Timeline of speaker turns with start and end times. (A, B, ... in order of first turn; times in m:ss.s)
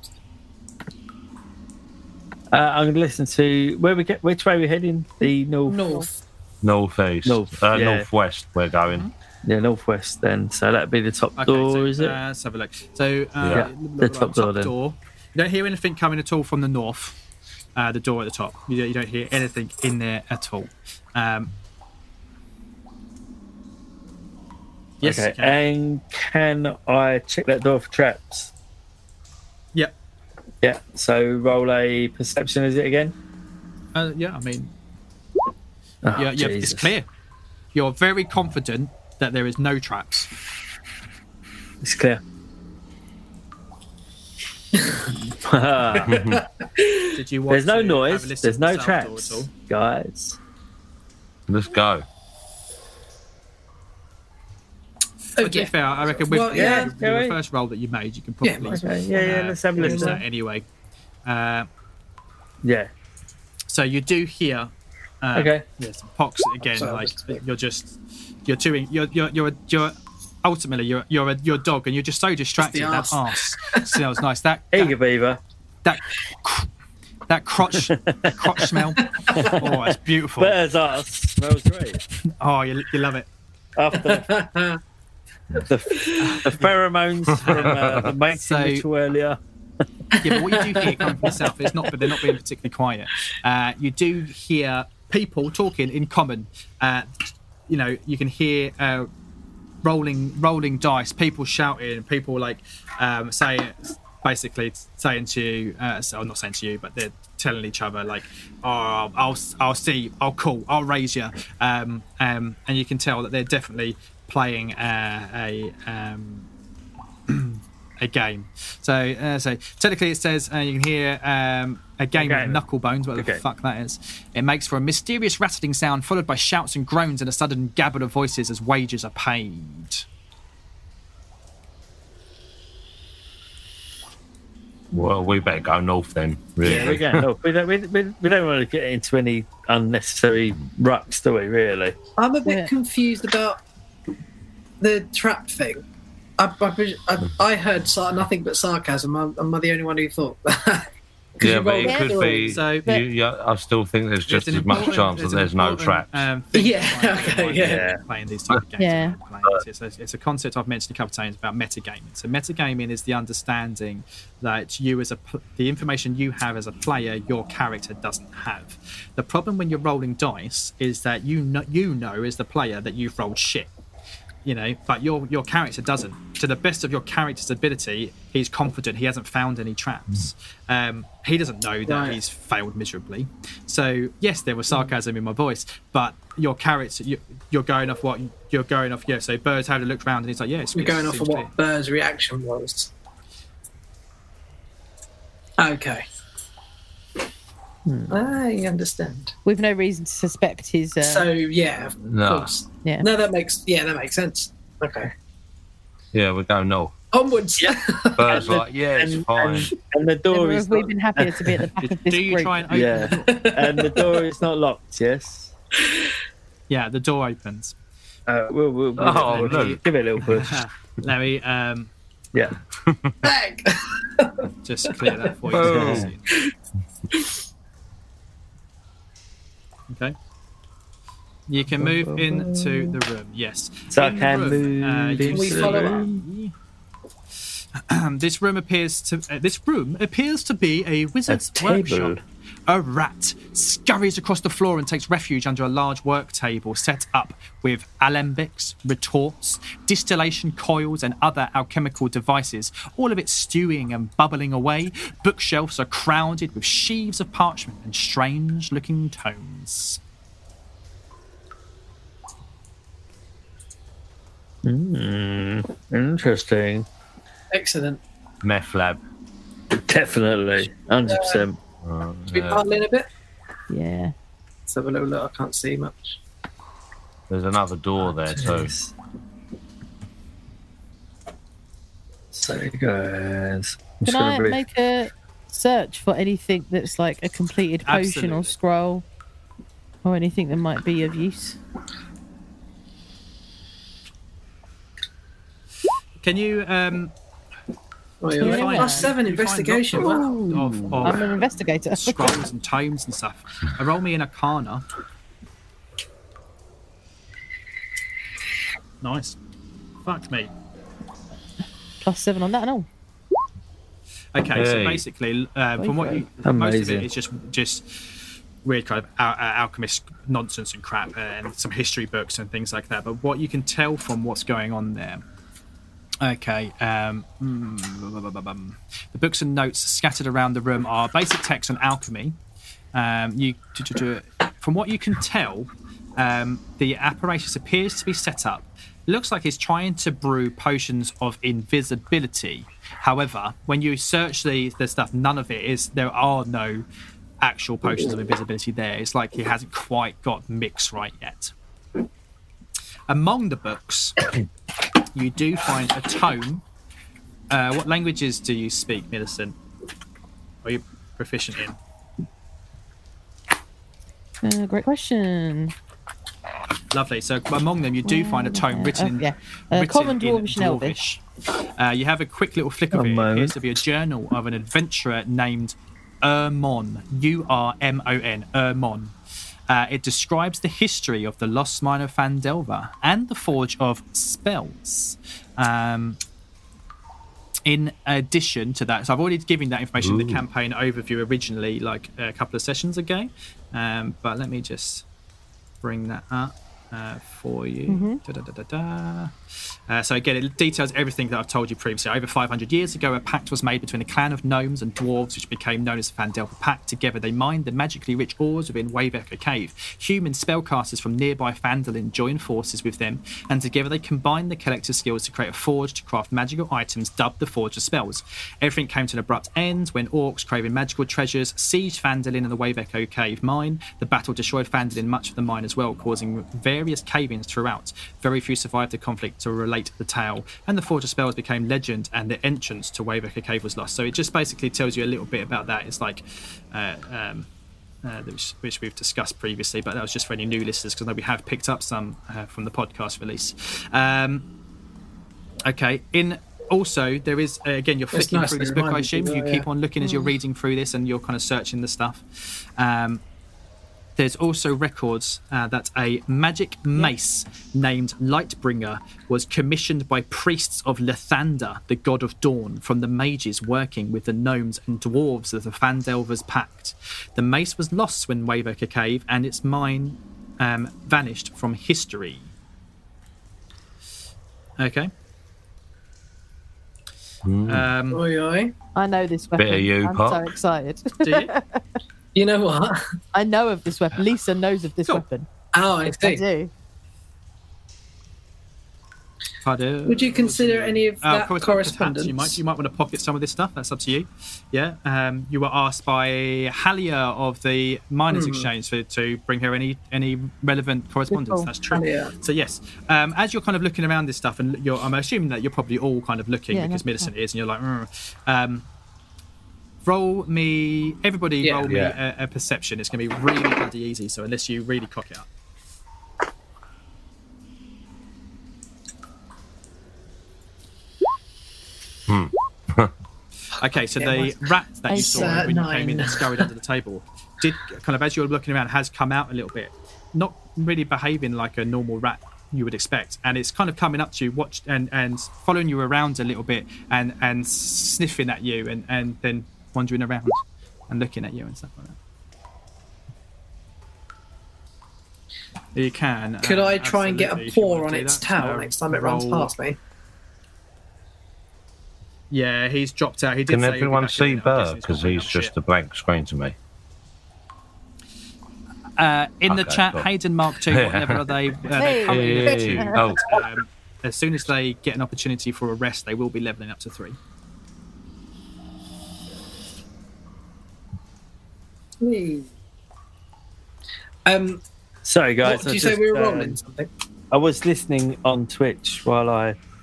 0:02.5-0:05.8 A
0:05.7-0:06.2 B
0:06.6-0:09.0 C
0:07.2-0:08.1 A
0:09.4-0:12.2 A
0:11.4-0:17.2 D
0:13.4-0:13.7 C
0:13.5-0:14.7 A
0:17.8-0:21.5 D
0:25.0-0:25.6 D
0:25.0-0:28.5 A
0:30.6-0:33.1 A
0:34.0-0:34.7 D
0:36.0-0:36.9 A
0:36.2-0:37.1 D
0:37.7-0:40.3 D
0:41.8-0:42.2 A
0:44.8-0:45.1 B
0:45.3-0:46.2 A
0:46.0-0:47.0 B
0:46.0-0:46.4 C
0:47.1-0:49.5 D
0:47.5-0:50.4 A
0:51.5-0:52.0 C
0:55.4-0:56.9 B
0:55.4-1:00.7 D
0:56.5-0:57.4 A
0:58.4-0:58.8 B
0:58.7-1:00.2 A
0:59.8-1:00.2 B
1:01.2-1:01.7 D
1:02.6-1:02.9 A
1:03.7-1:04.7 D
1:05.2-1:15.0 D
1:05.4-1:05.6 A
1:06.6-1:07.4 B
1:12.6-1:13.8 B
1:14.7-1:15.4 A
1:15.8-1:16.7 D
1:17.3-1:20.6 D
1:17.7-1:22.0 A
1:19.2-1:19.5 B
1:22.4-1:23.3 D
1:23.8-1:24.3 A
1:24.0-1:24.8 B
1:25.5-1:29.4 A
1:26.2-1:26.7 D
1:27.4-1:28.8 D
1:27.7-1:28.1 C
1:30.2-1:37.1 D
1:30.2-1:31.1 B
1:37.7-1:39.1 D
1:39.8-1:56.5 D
1:57.3-2:10.1 D
2:02.1-2:02.6 A
2:03.2-2:03.4 A
2:14.9-2:17.2 C
2:16.6-2:22.0 A
2:16.6-2:17.0 D
2:22.2-2:23.6 B
2:22.4-2:22.7 E
2:24.8-2:25.8 B
2:26.4-2:32.6 B
2:31.4-2:36.3 C
2:31.8-2:33.0 E
2:32.5-2:32.9 D
2:34.3-2:53.7 D
2:36.5-2:37.9 B
2:37.6-2:38.0 A
2:38.8-2:39.2 E
2:54.4-3:11.5 D
3:01.9-3:02.2 B
3:10.8-3:12.9 B
3:15.6-3:16.0 B
3:17.9-3:18.2 A
3:18.1-3:19.4 B
3:19.4-3:21.3 E
3:21.0-3:25.1 B
3:22.1-3:22.5 C
3:26.1-3:26.9 C
3:27.1-3:28.6 B
3:27.6-3:31.7 A
3:28.2-3:29.7 C
3:30.3-3:32.7 E
3:31.8-3:33.5 D
3:32.7-3:35.5 A
3:33.0-3:34.2 B
3:36.7-3:37.8 D
3:38.3-3:40.6 A
3:39.0-3:39.8 C
3:39.0-3:41.9 D
3:42.9-3:43.1 C
3:43.2-3:44.4 B
3:44.6-3:46.3 D
3:45.0-3:45.3 B
3:45.5-3:46.1 C
3:45.5-3:46.1 A
3:49.9-3:50.2 D
3:51.5-3:56.5 D
3:51.7-3:52.9 A
3:53.9-3:56.2 A
3:55.2-3:56.0 B
3:57.8-4:20.0 D
4:01.3-4:02.2 A
4:24.6-4:26.9 A
4:27.5-4:28.0 B
4:28.4-4:29.0 C
4:29.7-4:31.6 A
4:31.1-4:31.4 B
4:31.8-4:32.6 C
4:32.3-4:33.1 B
4:33.7-4:34.1 E
4:34.7-4:36.2 B
4:37.3-4:38.7 C
4:38.0-4:38.9 A
4:42.3-4:44.6 A
4:44.0-4:49.0 E
4:47.8-4:48.6 D
4:50.0-4:51.6 E
4:56.2-4:57.1 D
4:58.2-5:00.3 B
4:58.4-5:01.3 D
4:58.4-4:59.1 E
5:00.0-5:02.5 E
5:01.9-5:04.9 D
5:09.0-5:09.4 D
5:10.0-5:10.5 D
5:12.0-5:12.9 E
5:14.3-5:25.2 D
5:14.5-5:15.0 C
5:15.8-5:16.2 E
5:16.4-5:17.1 A
5:26.2-5:32.4 D
5:32.9-5:46.8 D
5:47.4-5:51.5 D
5:53.1-5:54.2 D
5:55.1-5:56.6 D
5:57.5-5:59.6 D
6:00.6-6:01.8 D
6:04.4-6:05.7 E
6:06.9-6:11.2 D
6:08.0-6:11.0 E
6:11.8-6:19.2 D
6:12.9-6:13.8 A
6:19.7-6:26.2 D
6:27.7-6:35.0 D
6:30.0-6:30.4 C
6:35.8-6:39.4 D
6:37.9-6:38.2 E
6:39.9-7:17.5 D
7:18.0-7:24.5 D
7:25.6-7:33.2 D
7:28.1-7:29.7 B
7:30.0-7:30.3 E
7:34.2-7:52.5 D
7:54.8-7:55.1 D
7:57.4-7:57.9 C
7:57.7-7:58.2 D
7:58.1-7:58.7 B
7:59.0-8:01.8 E
7:59.6-8:00.5 C
8:01.2-8:01.5 D
8:02.4-8:03.0 B
8:03.3-8:05.5 E
8:05.7-8:06.4 B
8:06.0-8:06.7 E
8:09.6-8:28.9 D
8:10.1-8:12.6 B
8:18.3-8:18.7 B
8:21.3-8:21.7 E
8:21.9-8:22.3 B
8:26.7-8:27.3 E
8:30.0-8:35.5 D
8:31.6-8:31.9 B
8:31.9-8:32.2 C
8:42.3-8:43.1 C
8:43.8-9:02.2 D
8:44.2-8:46.6 B
8:45.1-8:45.7 E
9:06.0-9:09.7 D
9:06.6-9:10.0 B
9:12.5-9:15.7 D
9:13.7-9:16.8 C
9:19.2-9:27.4 D
9:19.7-9:20.3 C
9:20.9-9:21.5 C
9:22.0-9:23.4 E
9:22.3-9:23.5 C
9:32.2-9:32.7 B
9:34.4-9:34.8 B
9:35.2-9:36.8 A
9:35.6-9:37.1 B
9:37.5-9:39.8 A